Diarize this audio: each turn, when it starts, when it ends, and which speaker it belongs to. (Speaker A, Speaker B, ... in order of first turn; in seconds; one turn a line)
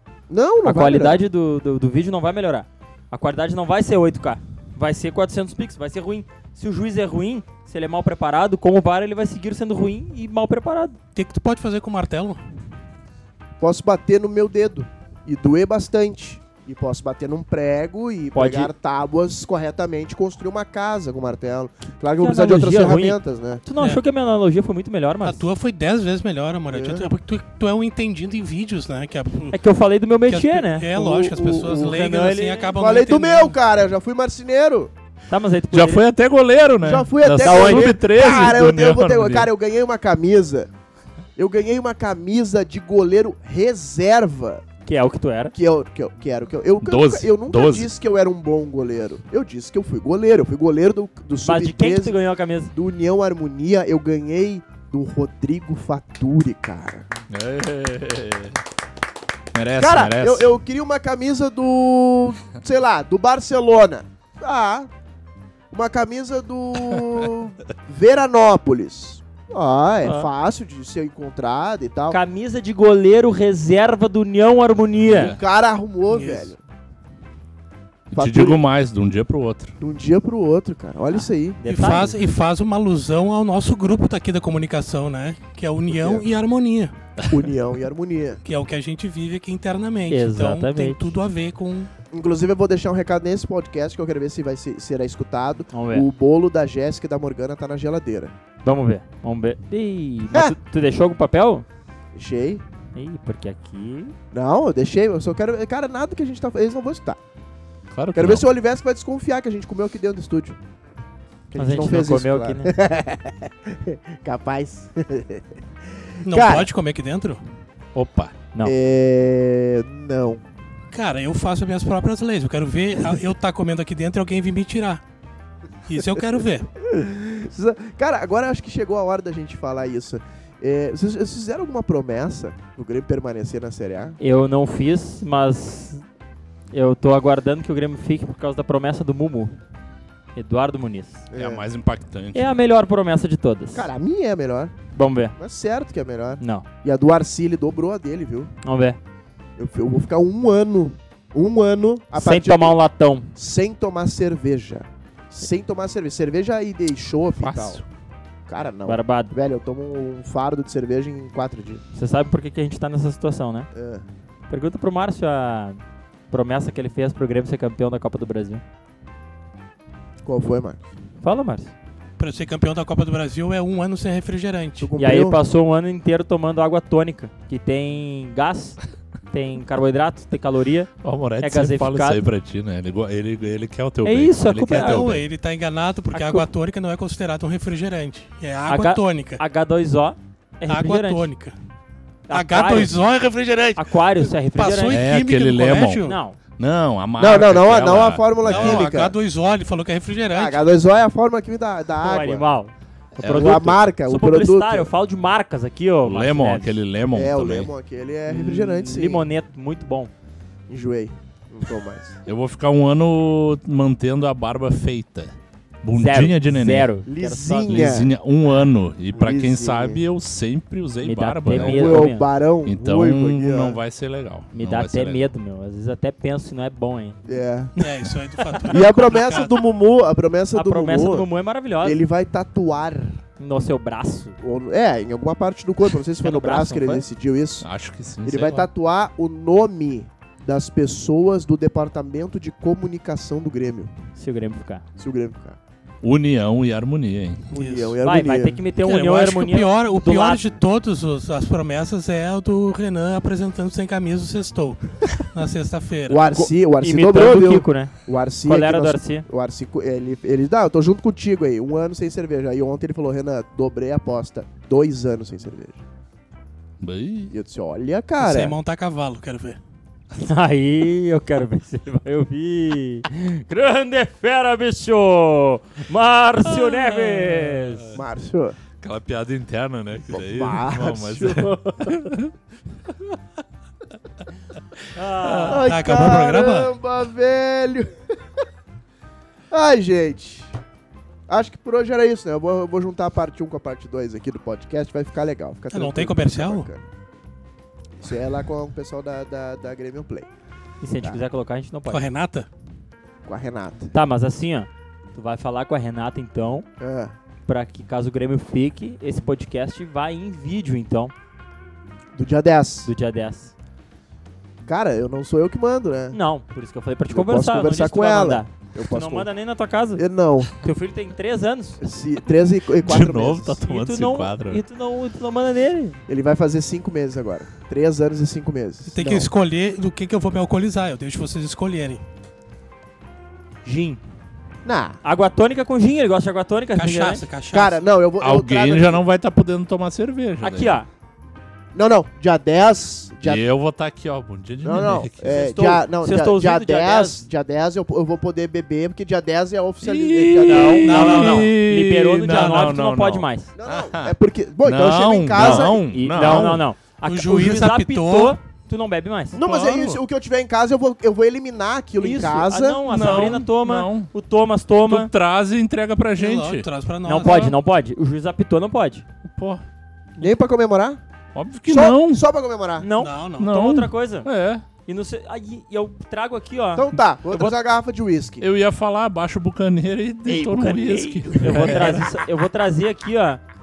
Speaker A: 0.3-1.2
Speaker B: 0.6-11.0
Speaker C: 11.1-12.4
Speaker A: 13.6-23.6
Speaker B: 18.3-18.7
Speaker B: 22.2-25.4
Speaker C: 25.2-29.6
Speaker A: 26.7-27.1
Speaker B: 29.5-30.9
Speaker C: 30.3-33.6
Speaker A: 30.9-32.0
Speaker B: 31.9-32.8
Speaker A: 32.8-34.9
Speaker B: 35.3-36.1
Speaker D: 35.7-39.5
Speaker A: 36.8-40.7
Speaker B: 37.4-38.0
Speaker A: 41.4-44.6
Speaker B: 44.9-45.5
Speaker A: 45.5-52.1
Speaker D: 46.8-47.9
Speaker B: 51.4-52.7
Speaker A: 52.7-57.1
Speaker D: 57.3-58.6
Speaker D: 59.5-60.5
Speaker A: 59.8-64.9
Speaker A: 65.7-72.2
Speaker B: 70.0-70.3
Speaker B: 72.1-75.4
Speaker D: 75.0-75.4
Speaker A: 75.1-76.6
Speaker C: 76.1-76.5
Speaker D: 78.1-79.8
Speaker A: 78.2-78.6
Speaker A: 79.8-81.6
Speaker B: 81.1-82.2
Speaker C: 81.7-86.9
Speaker A: 85.9-86.3
Speaker A: 87.3-88.4
Speaker C: 88.5-91.9
Speaker B: 90.1-91.1
Speaker A: 92.1-98.3
Speaker B: 95.7-96.1
Speaker B: 98.6-101.7
Speaker A: 102.2-102.6
Speaker B: 103.0-104.2
Speaker A: 104.3-107.2
Speaker D: 107.9-108.5
Speaker A: 108.2-110.6
Speaker A: 111.5-115.5
Speaker B: 111.6-112.7
Speaker C: 116.2-117.4
Speaker A: 116.3-116.7
Speaker D: 118.0-118.3
Speaker A: 118.6-120.4
Speaker C: 120.9-125.0
Speaker C: 125.9-126.7
Speaker A: 126.8-134.2
Speaker B: 134.2-136.0
Speaker B: 136.7-139.6
Speaker B: 140.3-141.3
Speaker A: 141.3-141.6
Speaker D: 141.3-142.5
Speaker B: 142.3-143.9
Speaker A: 143.7-144.7
Speaker B: 144.9-145.3
Speaker A: 145.4-148.5
Speaker B: 146.4-146.7
Speaker B: 148.6-149.0
Speaker A: 149.6-152.8
Speaker B: 152.2-153.3
Speaker A: 153.3-157.8
Speaker D: 157.3-157.8
Speaker A: 158.5-161.8
Speaker B: 158.9-159.3
Speaker B: 161.9-163.7
Speaker A: 163.7-164.1
Speaker B: 164.5-168.6
Speaker A: 170.2-170.9
Speaker B: 171.2-171.7
Speaker C: 172.2-174.9
Speaker A: 174.8-175.4
Speaker B: 175.0-178.8
Speaker B: 179.3-182.2
Speaker D: 181.0-185.2
Speaker B: 184.0-185.1
Speaker C: 184.7-189.4
Speaker B: 186.1-186.5
Speaker B: 188.7-191.3
Speaker C: 190.7-191.6
Speaker B: 192.3-192.9
Speaker C: 192.3-196.2
Speaker B: 193.8-195.0
Speaker D: 194.9-198.9
Speaker B: 196.0-196.4
Speaker A: 197.2-199.1
Speaker C: 198.5-200.6
Speaker A: 200.3-202.5
Speaker B: 202.0-206.8
Speaker D: 203.2-203.8
Speaker A: 203.2-204.9
Speaker D: 206.1-207.7
Speaker A: 207.1-209.3
Speaker B: 208.3-210.1
Speaker A: 210.7-212.2
Speaker D: 212.3-216.9
Speaker B: 215.9-218.0
Speaker A: 217.1-218.1
Speaker D: 217.6-222.1
Speaker A: 219.1-220.0
Speaker B: 221.0-222.3
Speaker A: 221.5-223.8
Speaker D: 222.7-225.3
Speaker B: 224.5-227.4
Speaker A: 227.3-227.8
Speaker C: 227.8-229.6
Speaker B: 228.4-228.9
Speaker A: 228.7-231.3
Speaker B: 230.5-232.0
Speaker A: 231.8-233.2
Speaker B: 233.4-234.4
Speaker A: 234.4-237.7
Speaker B: 236.2-237.1
Speaker D: 237.6-238.7
Speaker A: 238.2-243.9
Speaker B: 244.2-244.8
Speaker A: 245.0-245.6
Speaker D: 246.0-247.5
Speaker C: 247.5-248.0
Speaker A: 247.5-248.6
Speaker B: 248.0-250.4
Speaker C: 248.8-256.2
Speaker A: 256.1-265.8
Speaker B: 256.4-257.9
Speaker B: 258.4-259.3
Speaker D: 266.8-267.3
Speaker A: 267.3-268.6
Speaker C: 268.2-269.6
Speaker B: 270.2-277.9
Speaker D: 276.6-278.0
Speaker A: 277.9-278.6
Speaker D: 278.8-282.3
Speaker A: 280.1-282.0
Speaker B: 284.9-285.7
Speaker D: 285.2-285.5
Speaker A: 285.4-288.4
Speaker C: 285.5-286.8
Speaker A: 289.5-290.5
Speaker A: 291.3-296.9
Speaker C: 295.7-296.7
Speaker A: 298.0-300.3
Speaker B: 300.8-302.1
Speaker C: 301.9-302.5
Speaker A: 303.3-303.9
Speaker B: 303.9-306.7
Speaker A: 306.8-307.2
Speaker B: 307.5-311.1
Speaker A: 312.1-312.9
Speaker B: 312.8-313.5
Speaker A: 314.7-316.2
Speaker B: 316.1-320.0
Speaker A: 317.1-319.3
Speaker A: 320.0-320.6
Speaker B: 320.6-321.8
Speaker A: 321.8-323.6
Speaker D: 322.8-324.6
Speaker B: 323.6-326.0
Speaker A: 326.1-329.3
Speaker C: 328.9-332.0
Speaker B: 333.6-334.0
Speaker A: 334.6-335.0
Speaker B: 335.0-337.2
Speaker C: 336.8-337.9
Speaker A: 337.5-339.0
Speaker D: 338.2-340.8
Speaker B: 340.4-340.9
Speaker A: 341.7-343.4
Speaker D: 343.2-345.5
Speaker A: 344.6-351.3
Speaker B: 345.3-347.3
Speaker D: 349.8-356.7
Speaker B: 350.4-353.5
Speaker C: 350.9-351.5
Speaker A: 353.6-356.5
Speaker B: 355.3-359.4
Speaker C: 357.1-358.4
Speaker A: 359.3-362.8
Speaker C: 359.4-360.0
Speaker B: 362.0-365.1
Speaker D: 362.8-364.1
Speaker D: 364.9-366.7
Speaker C: 366.2-367.6
Speaker B: 367.1-369.1
Speaker D: 369.2-369.6
Speaker A: 370.2-371.0
Speaker D: 371.3-372.3
Speaker A: 371.7-372.9
Speaker B: 372.8-374.3
Speaker C: 373.0-373.5
Speaker D: 373.4-374.7
Speaker B: 374.9-377.6
Speaker A: 376.8-378.5
Speaker D: 378.4-382.1
Speaker A: 380.3-382.0
Speaker B: 381.4-383.4